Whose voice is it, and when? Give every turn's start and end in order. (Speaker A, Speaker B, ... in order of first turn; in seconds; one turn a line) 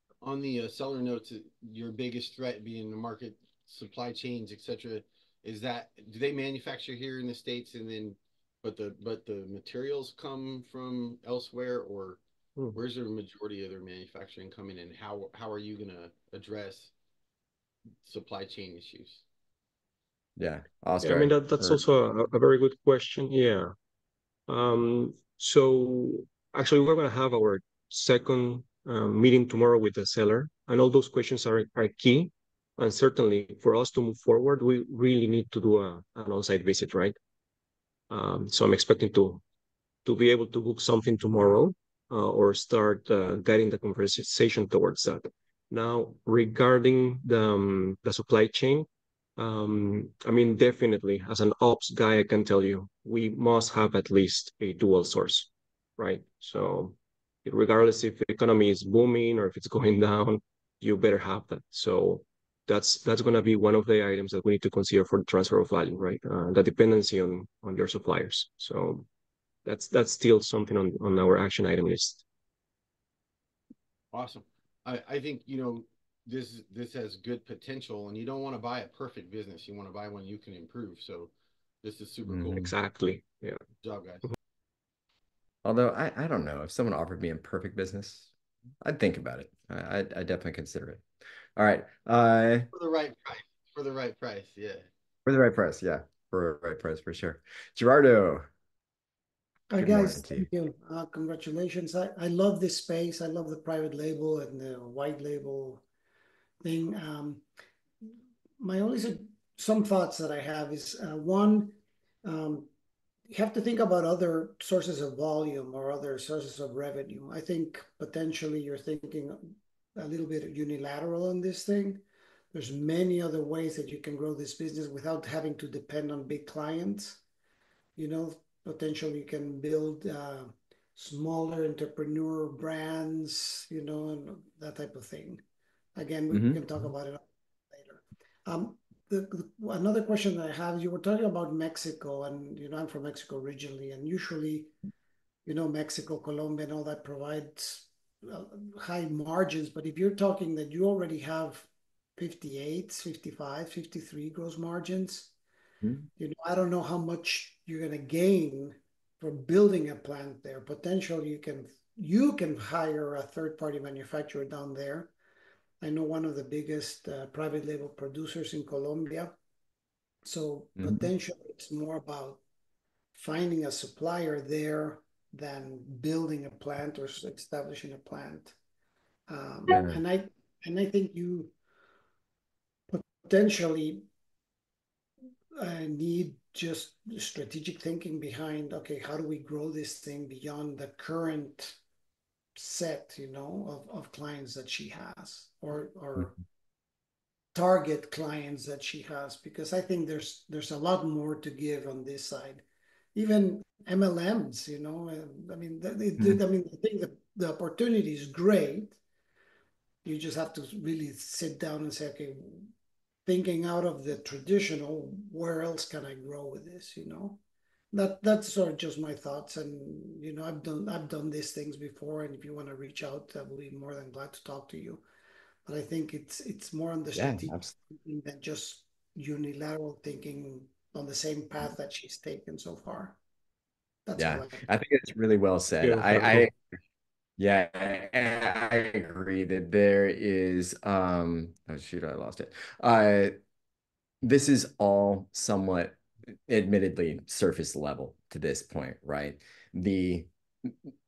Speaker A: 0.2-12.2
Speaker A: 12.7-16.9
Speaker A: 18.0-19.2
Speaker B: 20.4-21.9
Speaker C: 21.0-23.7
Speaker C: 24.5-37.2
Speaker C: 38.1-39.4
Speaker C: 40.0-69.1
Speaker C: 69.7-72.2
Speaker A: 74.1-81.3
Speaker A: 81.8-82.7
Speaker B: 82.3-82.7
Speaker C: 82.5-83.6
Speaker A: 83.8-84.2
Speaker B: 85.6-91.0
Speaker B: 91.6-92.7
Speaker A: 92.7-94.9
Speaker B: 95.3-98.5
Speaker D: 99.7-105.8
Speaker B: 99.8-100.5
Speaker D: 106.6-107.4
Speaker D: 108.6-112.7
Speaker D: 113.3-127.2
Speaker D: 128.0-135.4
Speaker D: 135.9-144.7
Speaker B: 136.3-136.6
Speaker D: 145.5-155.3
Speaker D: 156.2-165.1
Speaker D: 165.8-169.3
Speaker D: 170.2-172.4
Speaker B: 170.8-171.1
Speaker D: 173.2-178.5
Speaker D: 179.3-181.5
Speaker B: 179.7-180.0
Speaker D: 182.9-184.0
Speaker D: 185.6-191.8
Speaker D: 192.6-196.4
Speaker D: 197.5-202.6
Speaker D: 203.2-209.0
Speaker D: 210.1-212.7
Speaker D: 213.3-217.4
Speaker D: 217.9-225.0
Speaker D: 225.7-233.2
Speaker B: 227.1-227.7
Speaker D: 234.1-234.6
Speaker B: 234.2-236.5
Speaker C: 235.8-236.5
Speaker B: 237.4-243.3
Speaker B: 244.2-250.8